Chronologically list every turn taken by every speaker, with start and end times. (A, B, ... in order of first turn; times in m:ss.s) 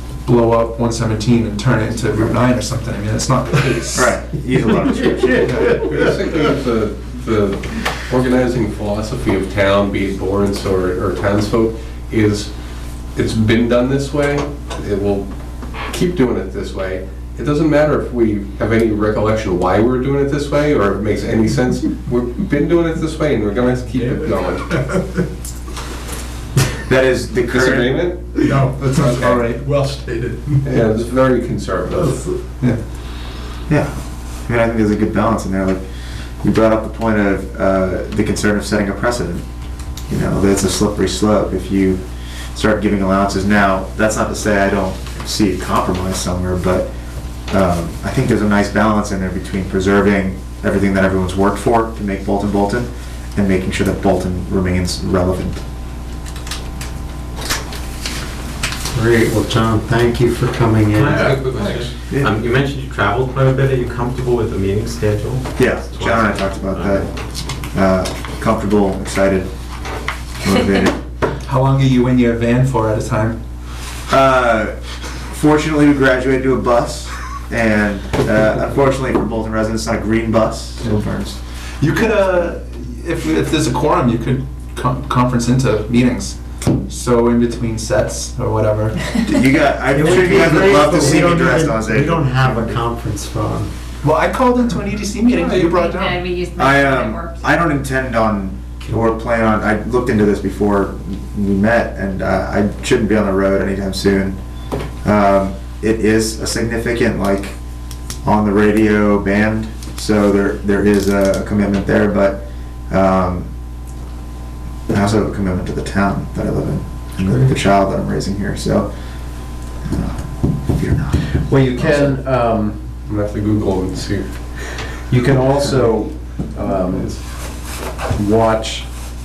0:00.2-0:04.2 A
0:03.9-0:05.4 B
0:05.4-0:05.8 A
0:05.6-0:12.5 C
0:13.1-0:24.8 C
0:24.7-0:25.0 D
0:26.9-0:28.3 B
0:27.5-0:28.4 C
0:28.5-0:30.6 D
0:28.7-0:29.8 A
0:30.6-0:32.3 C
0:33.7-0:35.8 B
0:36.4-0:39.4 B
0:40.1-0:42.0 B
0:42.5-0:46.9 B
0:47.5-0:55.6 B
0:58.9-1:01.4 E
1:01.0-1:01.9 C
1:01.0-1:07.0 D
1:05.6-1:07.1 B
1:07.7-1:09.5 B
1:10.4-1:11.0 B
1:11.4-1:13.4 A
1:14.1-1:21.4 B
1:21.8-1:29.1 A
1:29.2-1:32.8 B
1:29.9-1:33.7 E
1:34.0-1:36.2 A
1:35.3-1:37.4 F
1:36.6-1:44.4 B
1:45.0-1:47.6 B
1:48.2-1:53.5 B
1:54.9-1:58.9 B
1:57.2-1:57.5 E
1:59.8-2:02.2 B
2:01.4-2:02.8 G
2:03.1-2:04.5 C
2:05.1-2:08.9 G
2:06.9-2:07.2 C